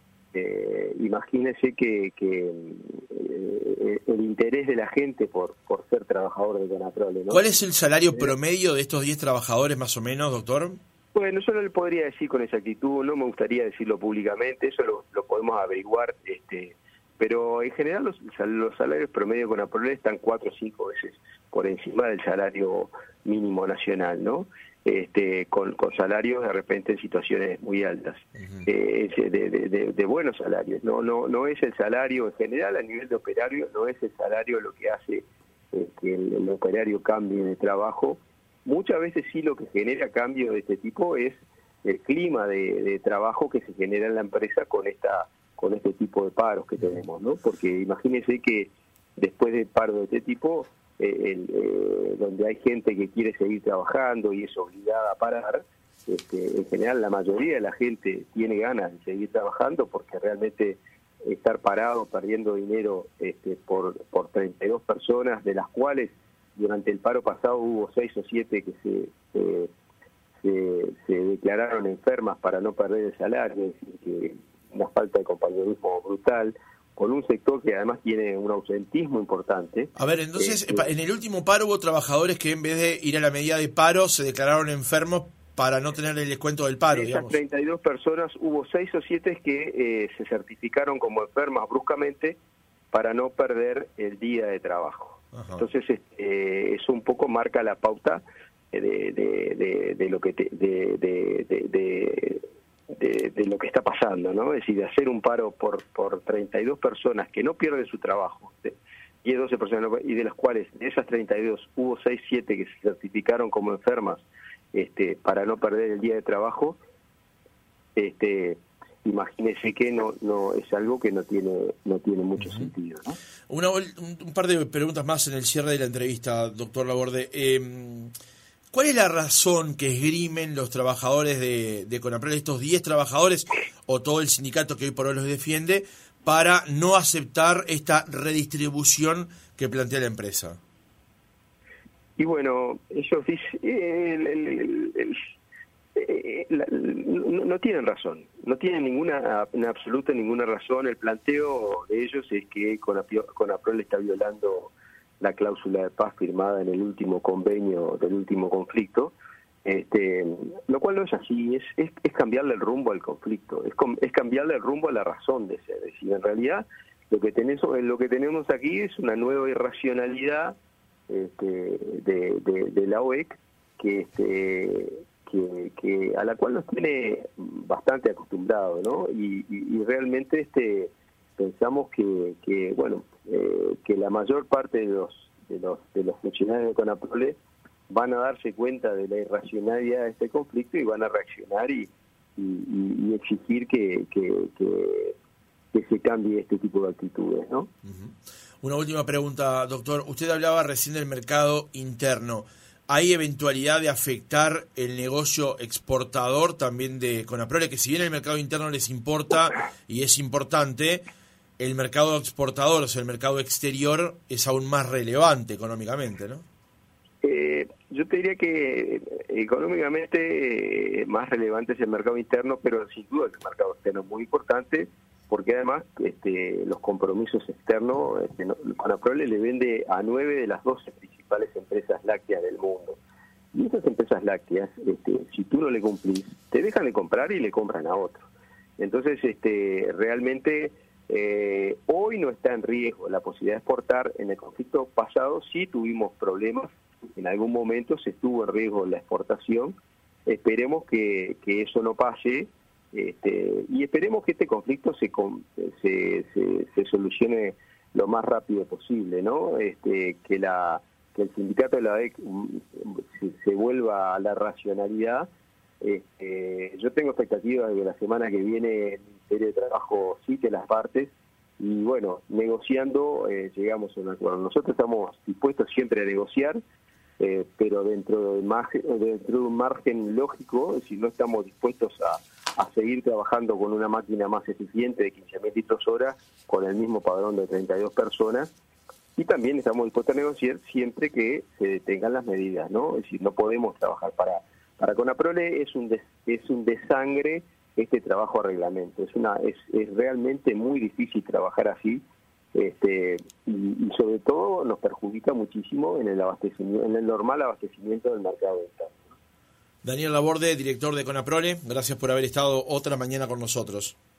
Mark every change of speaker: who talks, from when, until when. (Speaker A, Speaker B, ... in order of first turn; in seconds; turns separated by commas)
Speaker A: 0.3-7.5, Speaker B: 7.3-10.8, Speaker A: 11.1-69.7, Speaker A: 70.4-80.9, Speaker B: 80.0-87.4, Speaker A: 86.9-92.4, Speaker A: 92.9-116.8, Speaker B: 95.3-95.6, Speaker A: 118.0-123.2, Speaker B: 122.4-122.7, Speaker B: 123.5-128.1, Speaker B: 128.7-140.6, Speaker A: 142.2-145.2, Speaker A: 145.9-170.6, Speaker A: 171.1-187.4, Speaker A: 187.9-195.2, Speaker A: 195.7-197.7, Speaker B: 197.8-211.0, Speaker B: 211.6-216.4, Speaker A: 217.2-233.0, Speaker A: 233.5-265.3, Speaker A: 265.8-276.6, Speaker A: 277.2-288.5, Speaker A: 289.2-302.0, Speaker A: 302.6-309.0, Speaker B: 309.8-313.9